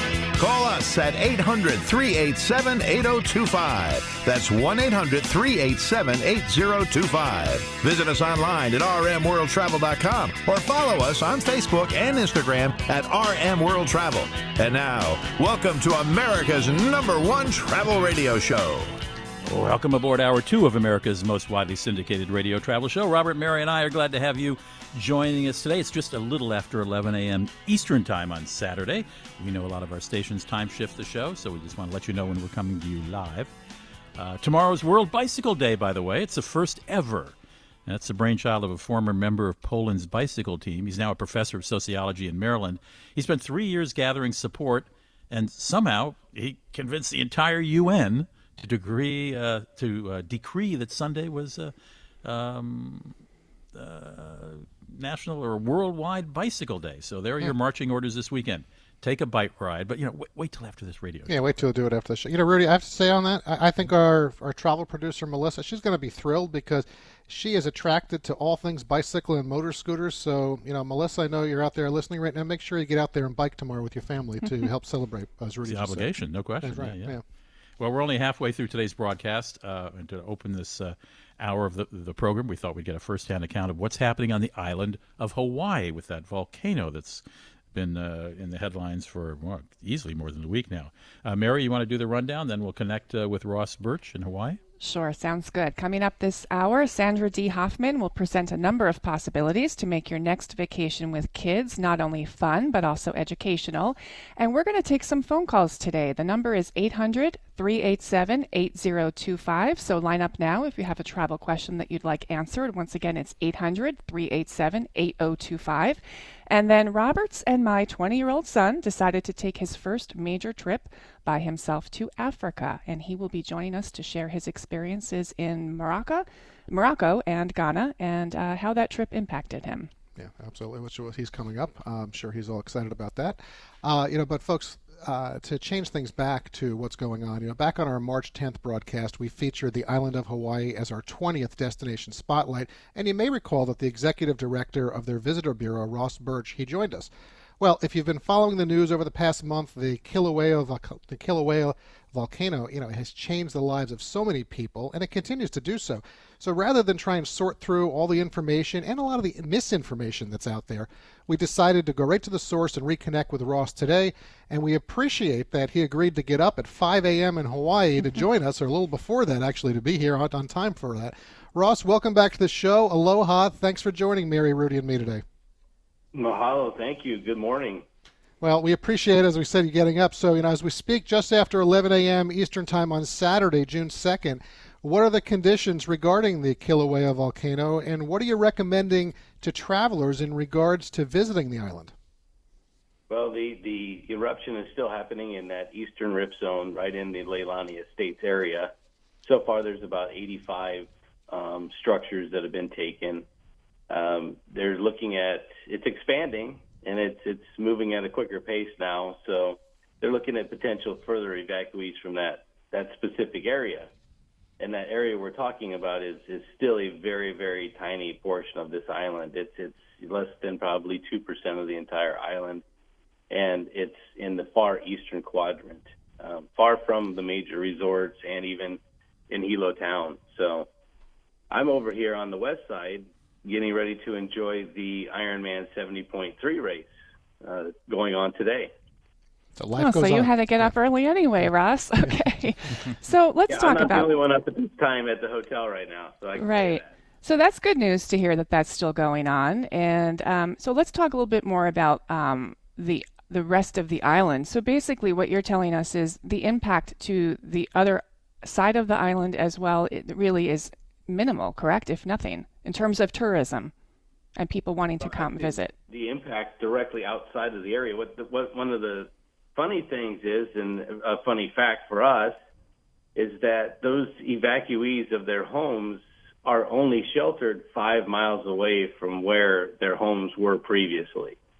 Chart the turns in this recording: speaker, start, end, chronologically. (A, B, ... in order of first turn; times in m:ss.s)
0:00.4-0:18.9 A
0:19.4-0:33.5 B
0:34.2-0:37.3 B
0:37.8-0:51.7 B
0:52.2-0:53.1 B
0:53.7-1:01.4 B
1:01.3-1:17.2 C
1:15.6-1:17.1 B
1:17.8-1:27.2 B
1:27.7-1:34.6 B
1:34.8-2:09.9 D
2:10.2-2:55.2 C
2:56.1-2:57.8 E
2:58.4-3:11.9 C
3:13.1-3:23.2 E
3:23.9-3:33.9 E
3:34.6-3:42.6 E
3:43.3-3:50.7 E
3:51.5-3:56.9 E
3:57.4-3:58.7 E
3:59.6-4:00.7 C
3:59.8-4:04.2 D
4:03.5-4:06.9 E
4:06.4-4:23.7 D
4:24.4-4:25.7 D
4:25.0-4:32.4 E
4:33.2-4:41.4 E